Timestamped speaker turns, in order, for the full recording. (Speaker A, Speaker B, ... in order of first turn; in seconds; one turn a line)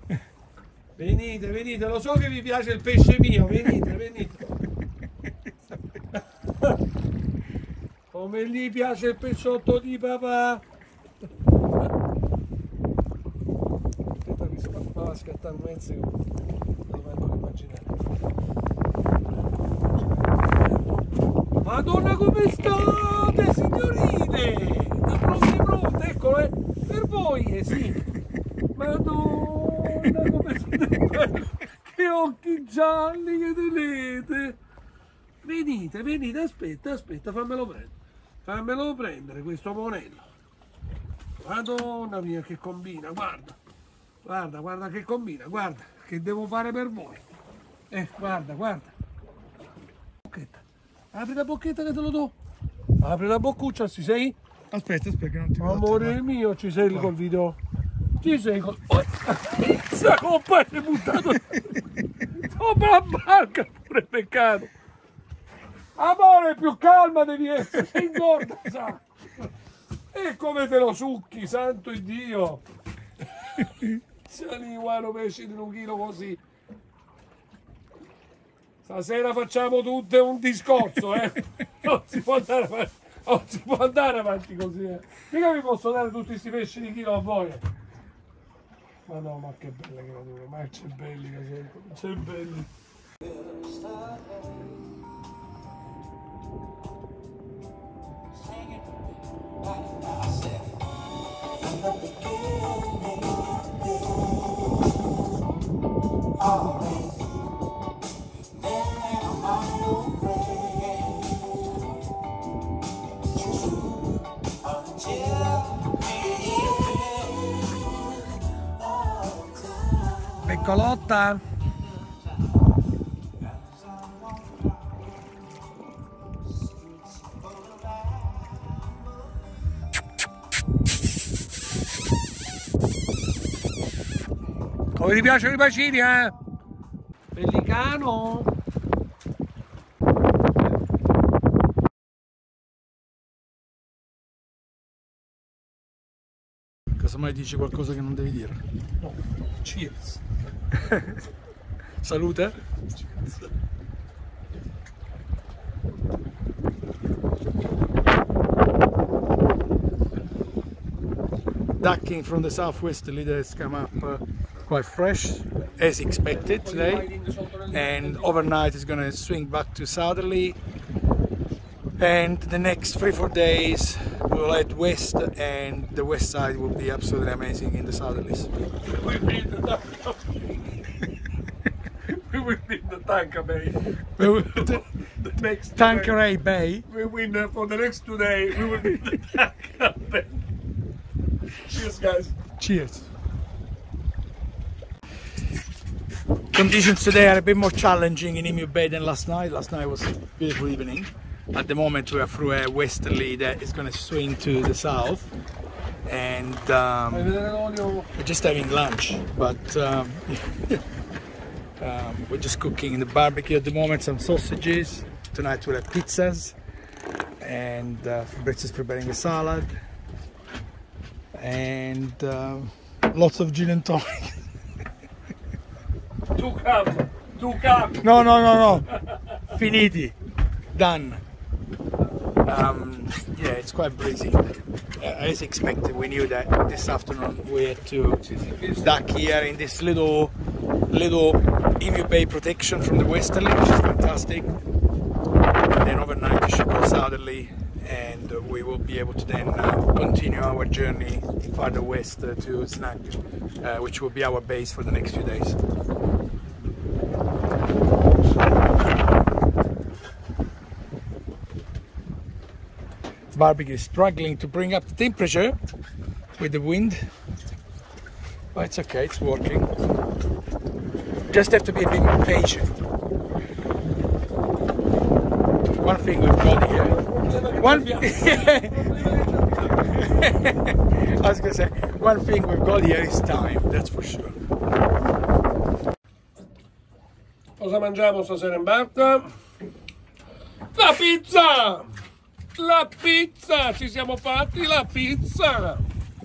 Speaker A: 0.9-4.4
Speaker A: 8.1-10.6
Speaker A: 14.2-16.2
Speaker A: 16.9-17.9
Speaker A: 20.4-21.0
Speaker A: 21.6-28.0
Speaker A: 28.7-34.6
Speaker A: 35.4-37.9
Speaker A: 38.4-40.2
Speaker A: 41.4-43.5
Speaker A: 44.2-47.2
Speaker A: 47.9-48.9
Speaker A: 50.3-50.5
Speaker A: 51.1-52.3
Speaker A: 53.0-54.4
Speaker B: 54.7-56.2
Speaker A: 55.6-57.5
Speaker A: 58.2-61.6
Speaker A: 62.3-64.7
Speaker A: 66.0-69.0
Speaker A: 70.1-72.6
Speaker A: 74.3-76.4
Speaker A: 78.8-87.6
Speaker A: 89.1-92.7
Speaker B: 101.9-103.3
Speaker B: 106.5-107.0
Speaker B: 108.7-111.2
Speaker B: 114.8-115.9
Speaker B: 116.5-117.2
Speaker A: 120.4-121.4
Speaker A: 134.9-136.3
Speaker A: 137.3-138.5
Speaker B: 147.0-148.6
Speaker A: 149.0-150.2
Speaker B: 152.0-152.5
Speaker A: 153.0-153.4
Speaker B: 161.8-167.1
Speaker A: 165.8-168.5
Speaker B: 167.7-170.6
Speaker B: 172.0-178.5
Speaker A: 178.8-180.5
Speaker A: 182.1-183.8
Speaker B: 184.2-184.8
Speaker A: 184.5-186.2
Speaker B: 185.8-186.8
Speaker A: 186.9-190.4
Speaker A: 191.7-192.3
Speaker B: 192.6-193.1
Speaker B: 196.5-205.3
Speaker B: 206.1-207.3
Speaker A: 207.1-208.1
Speaker B: 208.1-210.8
Speaker B: 211.8-216.5
Speaker B: 217.4-219.7
Speaker B: 221.3-224.3
Speaker A: 226.3-229.4
Speaker B: 228.0-228.8
Speaker B: 229.6-230.1
Speaker B: 230.7-231.2
Speaker B: 232.4-234.4
Speaker B: 235.0-238.2
Speaker A: 238.2-238.9
Speaker B: 238.8-240.3
Speaker B: 240.9-244.6
Speaker B: 245.7-255.6
Speaker B: 263.3-265.6
Speaker B: 266.4-267.1
Speaker B: 268.5-269.7
Speaker B: 271.3-272.7
Speaker B: 275.7-277.0
Speaker A: 276.7-280.4
Speaker B: 277.6-279.0
Speaker B: 279.8-284.4
Speaker A: 287.6-289.3
Speaker A: 290.7-291.9
Speaker A: 292.6-295.8